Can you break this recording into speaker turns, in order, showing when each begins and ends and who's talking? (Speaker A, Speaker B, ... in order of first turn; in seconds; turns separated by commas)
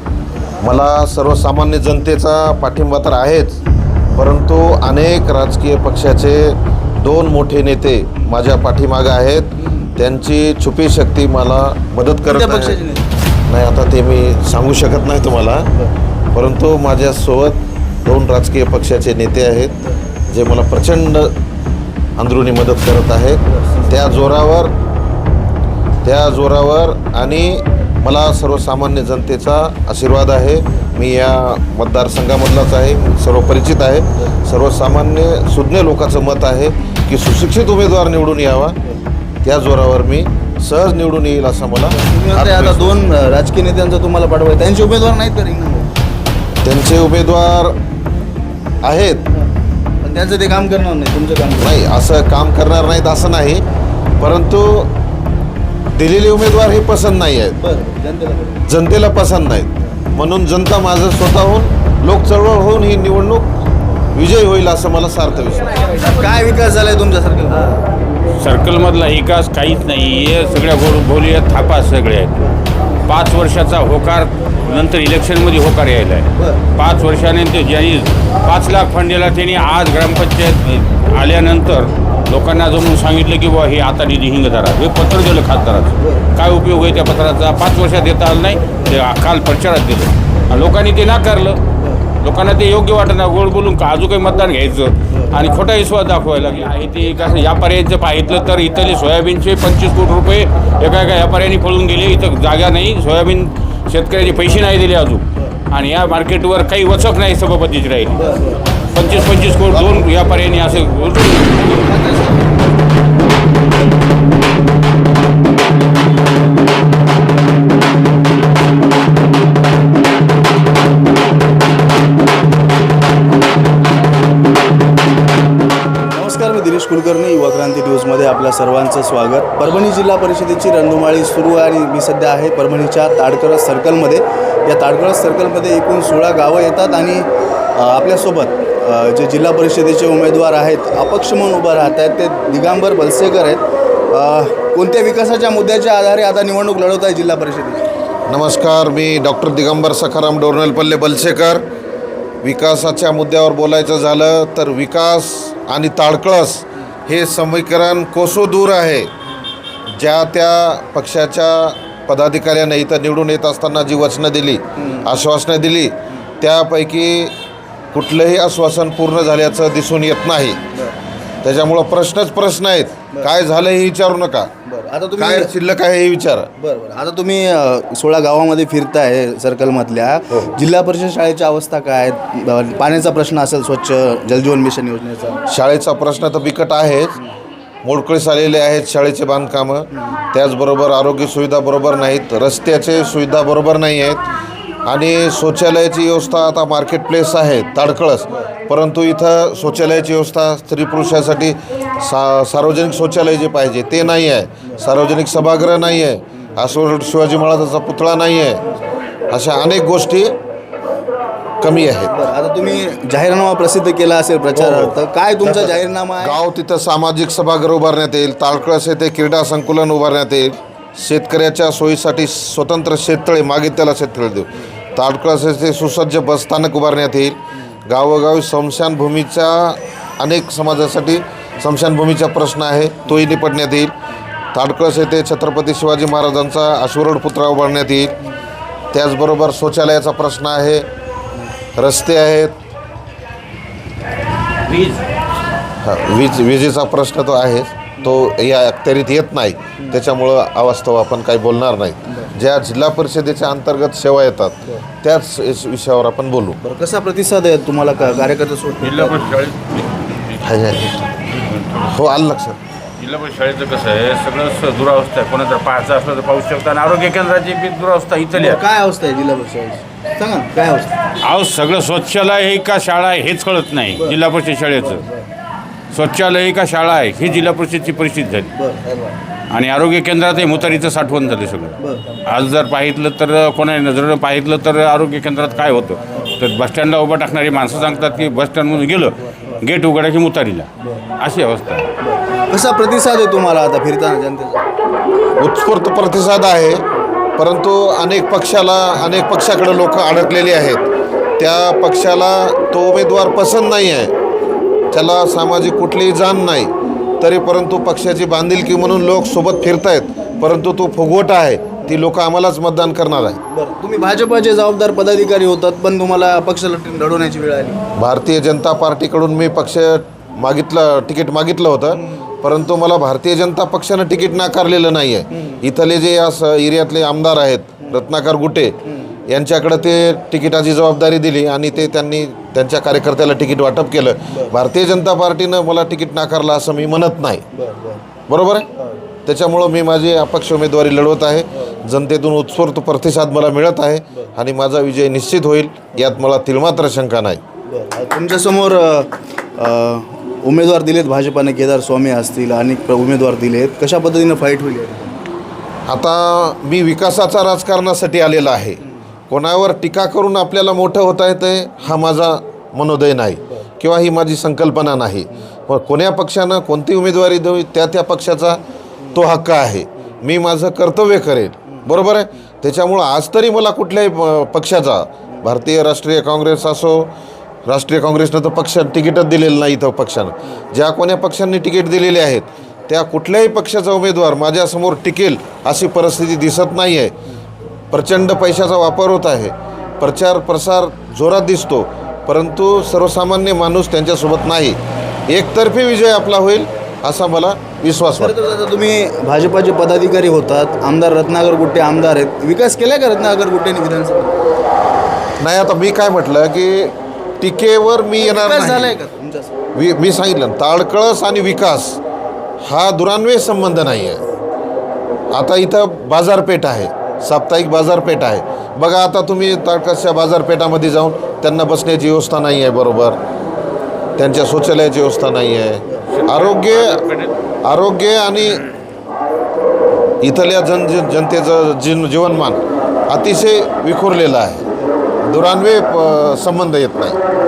Speaker A: 0.6-3.6, Speaker A: 4.1-12.8, Speaker B: 12.2-13.1, Speaker A: 13.5-15.7, Speaker A: 16.3-19.7, Speaker A: 20.3-21.3, Speaker A: 22.2-24.7, Speaker B: 23.6-23.9, Speaker A: 26.0-38.8, Speaker A: 39.4-43.0, Speaker B: 41.9-46.0, Speaker A: 46.6-47.8, Speaker A: 48.8-49.3, Speaker B: 50.0-51.8, Speaker A: 51.6-53.6, Speaker A: 54.2-54.9, Speaker A: 55.9-57.6, Speaker B: 57.6-58.6, Speaker A: 58.7-63.5, Speaker A: 64.1-65.7, Speaker B: 66.0-67.8, Speaker C: 68.4-72.4, Speaker C: 73.0-91.6, Speaker B: 76.3-76.6, Speaker B: 86.0-86.2, Speaker B: 91.8-92.0, Speaker C: 92.2-112.0, Speaker B: 108.2-108.6, Speaker B: 111.8-112.5, Speaker B: 126.1-147.9, Speaker A: 148.3-151.6, Speaker A: 152.4-159.1, Speaker A: 159.9-167.3, Speaker B: 164.8-165.1, Speaker A: 167.9-170.6, Speaker A: 171.4-174.5, Speaker B: 174.7-175.5, Speaker A: 175.2-176.5, Speaker B: 176.6-185.4, Speaker A: 185.5-187.2, Speaker A: 187.8-194.2, Speaker A: 194.8-208.7, Speaker A: 209.3-210.3, Speaker A: 211.6-212.2, Speaker B: 212.1-216.4, Speaker A: 214.5-233.9, Speaker A: 234.5-238.1, Speaker A: 238.9-240.8, Speaker A: 241.7-242.6, Speaker C: 244.6-245.0, Speaker A: 245.8-256.6, Speaker B: 256.6-259.4, Speaker C: 258.8-260.4, Speaker A: 260.4-261.3, Speaker C: 261.3-262.0, Speaker A: 261.8-262.6, Speaker C: 263.0-268.6, Speaker B: 268.3-270.9, Speaker C: 271.2-275.0, Speaker B: 274.8-275.2, Speaker C: 275.9-278.5, Speaker B: 278.5-279.1, Speaker C: 279.5-291.9, Speaker B: 281.8-282.0, Speaker B: 290.8-291.1, Speaker B: 292.0-294.6, Speaker A: 295.4-296.9, Speaker A: 297.4-300.9, Speaker A: 301.4-304.1, Speaker A: 304.9-313.4, Speaker B: 313.5-317.8, Speaker A: 317.9-328.8, Speaker B: 322.0-322.2, Speaker B: 328.9-329.2, Speaker A: 329.3-337.4, Speaker B: 337.5-338.0, Speaker A: 338.3-338.7, Speaker A: 339.2-347.4, Speaker B: 347.7-355.1, Speaker A: 355.9-368.6, Speaker A: 369.1-377.1, Speaker A: 377.6-387.1, Speaker A: 387.9-398.3, Speaker B: 398.1-404.4, Speaker A: 405.4-409.0, Speaker B: 408.2-409.5, Speaker A: 409.7-412.0, Speaker A: 412.6-414.2, Speaker A: 415.3-423.2, Speaker A: 424.2-427.0, Speaker C: 426.1-427.3, Speaker A: 427.6-428.6, Speaker A: 430.2-434.7, Speaker A: 435.2-437.2